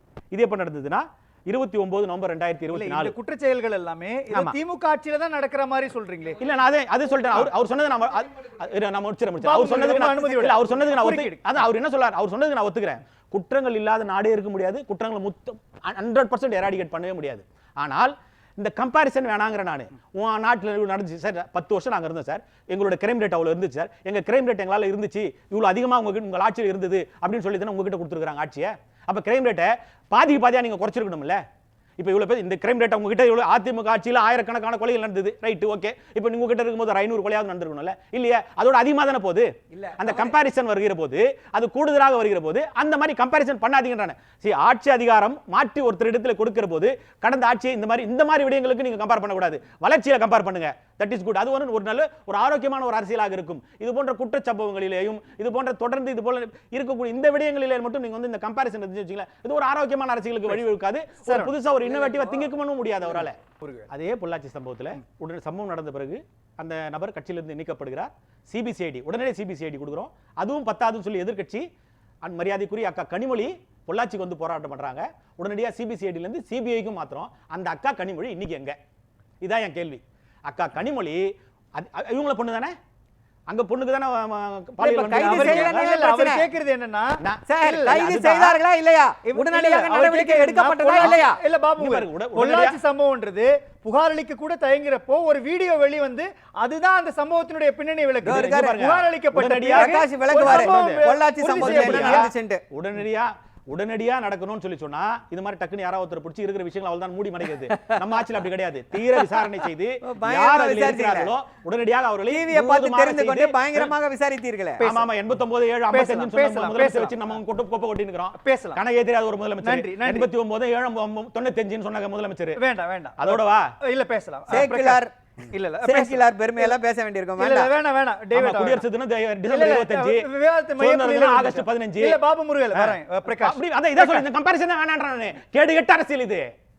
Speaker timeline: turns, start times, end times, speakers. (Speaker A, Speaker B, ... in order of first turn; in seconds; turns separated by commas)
Speaker A: 0.3-3.1, Speaker B: 2.7-6.4, Speaker A: 6.4-31.4, Speaker B: 9.4-11.4, Speaker A: 32.0-63.4, Speaker C: 39.7-40.3, Speaker B: 61.2-61.5, Speaker B: 63.6-63.9, Speaker A: 63.9-71.7, Speaker A: 72.2-78.8, Speaker A: 79.4-82.8, Speaker A: 83.5-85.9, Speaker C: 84.8-86.5, Speaker B: 85.1-88.0, Speaker A: 87.2-88.6, Speaker C: 87.5-91.4, Speaker B: 89.2-102.3, Speaker A: 91.8-92.8, Speaker C: 98.2-98.8, Speaker A: 98.2-113.9, Speaker C: 99.7-102.6, Speaker C: 107.7-108.1, Speaker C: 110.0-111.3, Speaker C: 112.3-115.0, Speaker A: 114.8-122.6, Speaker B: 115.9-117.2, Speaker B: 118.3-118.8, Speaker B: 119.6-120.3, Speaker B: 122.5-126.7, Speaker A: 123.2-123.7, Speaker C: 124.5-125.1, Speaker C: 125.8-127.7, Speaker B: 127.4-128.8, Speaker A: 128.3-132.2, Speaker B: 129.5-134.2, Speaker A: 132.7-136.5